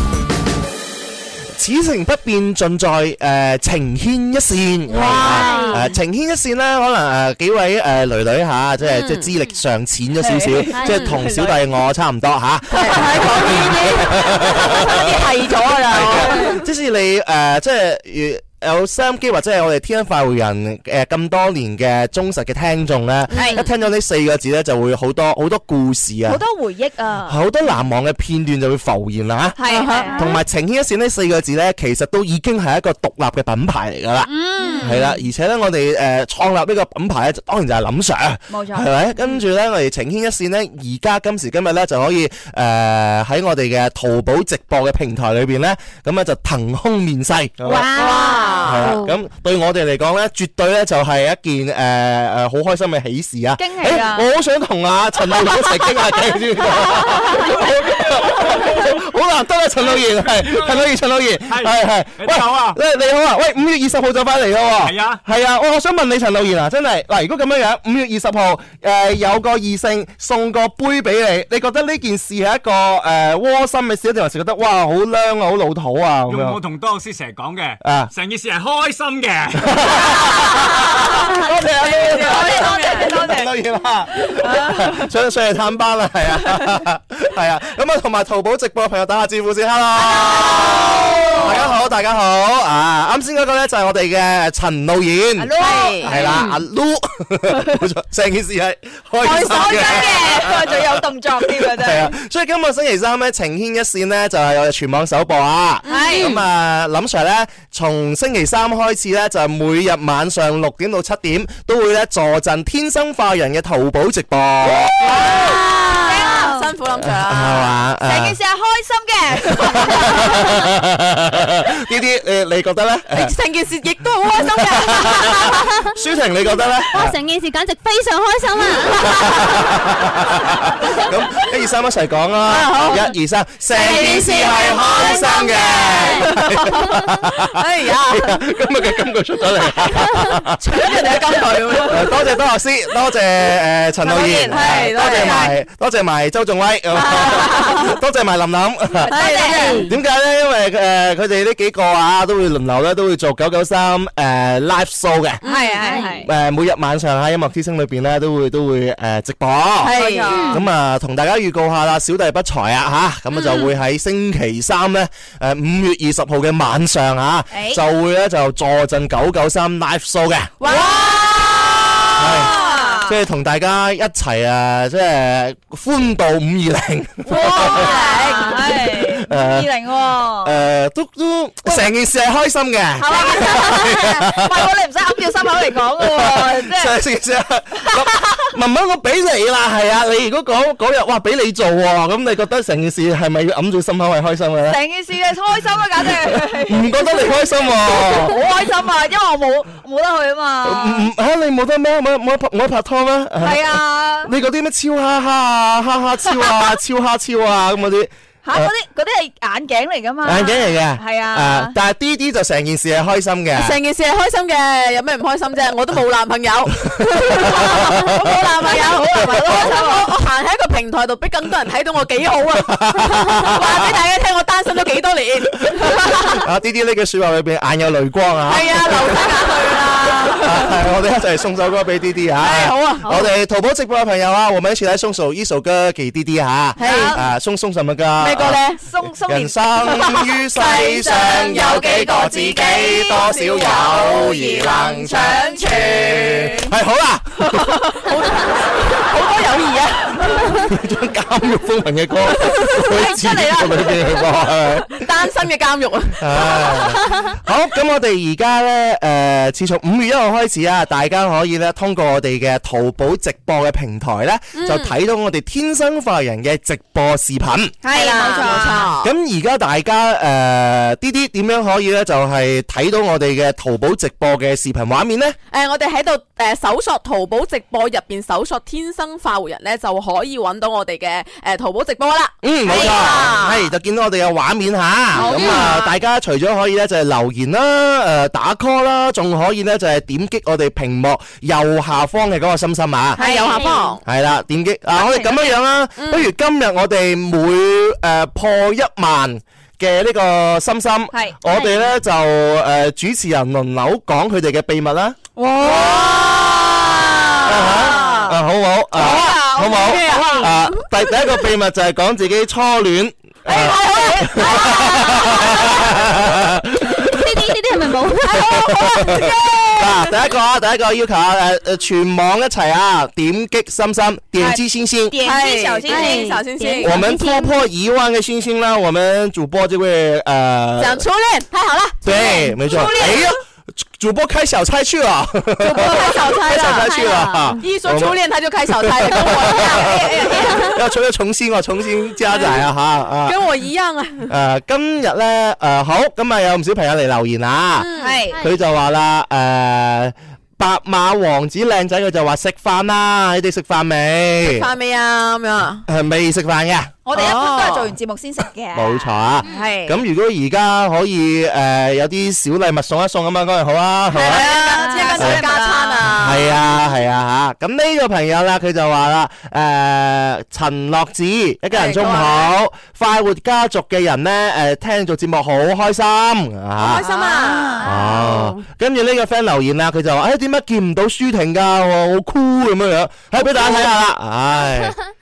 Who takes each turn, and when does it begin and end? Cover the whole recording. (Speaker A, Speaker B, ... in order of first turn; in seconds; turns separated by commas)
Speaker A: 1.6-15.1, Speaker B: 4.9-5.9, Speaker C: 5.1-5.8, Speaker B: 8.8-9.3, Speaker D: 10.2-11.3, Speaker C: 10.7-11.1, Speaker B: 10.9-11.2, Speaker B: 12.7-16.5, Speaker D: 12.9-13.2, Speaker A: 15.9-26.4, Speaker B: 23.3-23.7, Speaker D: 26.2-27.4, Speaker A: 27.3-29.6, Speaker D: 29.6-30.3, Speaker B: 29.6-30.1, Speaker A: 30.1-34.3, Speaker D: 34.2-35.0, Speaker B: 34.6-35.1, Speaker A: 34.8-76.6, Speaker D: 38.5-38.9, Speaker D: 47.6-48.8, Speaker B: 47.9-48.9, Speaker D: 53.6-54.3, Speaker E: 59.8-60.9, Speaker E: 61.4-62.8, Speaker E: 64.8-65.2, Speaker E: 76.3-80.0, Speaker A: 77.8-78.1, Speaker A: 79.6-115.4, Speaker B: 81.9-83.2, Speaker D: 81.9-83.5, Speaker D: 84.2-85.1, Speaker B: 90.0-91.5, Speaker D: 90.1-91.7, Speaker D: 95.4-96.4, Speaker B: 95.6-96.1, Speaker C: 96.1-96.6, Speaker B: 99.2-100.4, Speaker D: 99.2-102.1, Speaker B: 105.8-106.2, Speaker D: 105.9-106.4, Speaker C: 106.1-106.4, Speaker B: 115.0-117.7, Speaker D: 115.1-116.7, Speaker A: 117.1-118.3, Speaker D: 118.0-120.6, Speaker A: 119.4-123.3, Speaker B: 123.1-125.7, Speaker A: 124.3-127.2, Speaker C: 126.9-129.5, Speaker A: 128.6-141.0, Speaker B: 132.5-133.1, Speaker C: 133.8-136.3, Speaker D: 133.9-135.6, Speaker B: 134.9-135.5, Speaker B: 136.2-138.4, Speaker B: 140.6-142.1, Speaker A: 141.8-155.4, Speaker B: 144.0-145.5, Speaker D: 144.5-145.5, Speaker B: 146.9-147.9, Speaker D: 149.0-149.8, Speaker B: 149.1-149.8, Speaker C: 149.4-149.9, Speaker B: 155.4-156.0, Speaker D: 155.4-156.3, Speaker C: 155.8-156.1, Speaker A: 156.2-170.5, Speaker B: 159.8-160.4, Speaker D: 159.8-160.6, Speaker C: 160.3-160.6, Speaker B: 163.3-163.7, Speaker D: 167.5-167.8, Speaker B: 170.6-173.0, Speaker D: 170.6-173.2, Speaker A: 172.2-177.9, Speaker B: 177.3-178.6, Speaker D: 177.3-180.6, Speaker A: 178.7-179.7, Speaker A: 180.3-184.7, Speaker D: 183.0-186.9, Speaker A: 185.7-194.8, Speaker D: 194.7-201.1, Speaker A: 196.2-198.4, Speaker A: 200.6-208.7, Speaker D: 203.4-204.3, Speaker D: 206.3-206.7, Speaker D: 208.4-211.7, Speaker A: 210.2-213.8, Speaker B: 213.6-222.8, Speaker A: 216.9-218.0, Speaker D: 219.2-220.1, Speaker A: 219.3-219.9, Speaker A: 222.5-223.9, Speaker B: 223.4-226.4, Speaker A: 225.6-229.2, Speaker B: 228.5-230.7, Speaker A: 230.4-247.8, Speaker B: 232.4-233.1, Speaker B: 236.8-237.2, Speaker D: 236.8-237.3, Speaker B: 238.2-238.8, Speaker D: 238.8-239.5, Speaker B: 239.8-242.1, Speaker D: 240.8-246.7, Speaker B: 243.2-244.3, Speaker B: 245.6-246.6, Speaker B: 247.4-250.4, Speaker A: 250.5-255.0, Speaker B: 252.3-254.2, Speaker B: 254.9-256.6, Speaker A: 256.2-267.8, Speaker B: 264.5-264.9, Speaker D: 267.8-268.9, Speaker B: 267.9-269.1, Speaker A: 269.0-275.4, Speaker B: 275.5-283.7, Speaker A: 282.4-293.2, Speaker D: 282.7-283.2, Speaker B: 285.1-285.9, Speaker C: 285.3-285.6, Speaker B: 293.1-294.0, Speaker D: 293.2-293.8, Speaker A: 294.0-305.2, Speaker D: 294.9-295.5, Speaker B: 296.0-296.3, Speaker D: 301.1-301.4, Speaker C: 301.5-301.9, Speaker D: 305.4-306.8, Speaker B: 305.6-308.2, Speaker D: 307.4-308.4, Speaker A: 307.4-325.1, Speaker D: 309.0-310.5, Speaker B: 309.0-310.5, Speaker D: 313.5-316.0, Speaker B: 313.5-315.7, Speaker C: 317.0-318.5, Speaker B: 318.3-319.8, Speaker D: 318.4-319.9, Speaker D: 324.4-326.4, Speaker B: 325.2-327.0, Speaker C: 325.9-327.6, Speaker A: 326.8-331.0, Speaker B: 330.8-332.1, Speaker A: 332.0-343.4, Speaker D: 332.1-333.3, Speaker B: 332.8-333.1, Speaker B: 335.6-336.9, Speaker C: 336.7-337.6, Speaker B: 337.6-340.8, Speaker D: 339.8-340.7, Speaker B: 342.3-342.6, Speaker B: 343.2-344.3, Speaker A: 344.3-354.6, Speaker B: 347.8-348.2, Speaker D: 348.0-348.5, Speaker B: 354.4-355.8, Speaker A: 355.9-356.9, Speaker D: 357.0-359.2, Speaker B: 357.1-357.9, Speaker A: 358.7-365.5, Speaker B: 359.4-360.0, Speaker B: 364.1-366.6, Speaker D: 364.2-366.2, Speaker A: 366.2-377.0, Speaker B: 371.7-372.5, Speaker B: 376.8-378.6, Speaker D: 376.9-378.2, Speaker A: 377.8-384.9, Speaker C: 384.7-385.0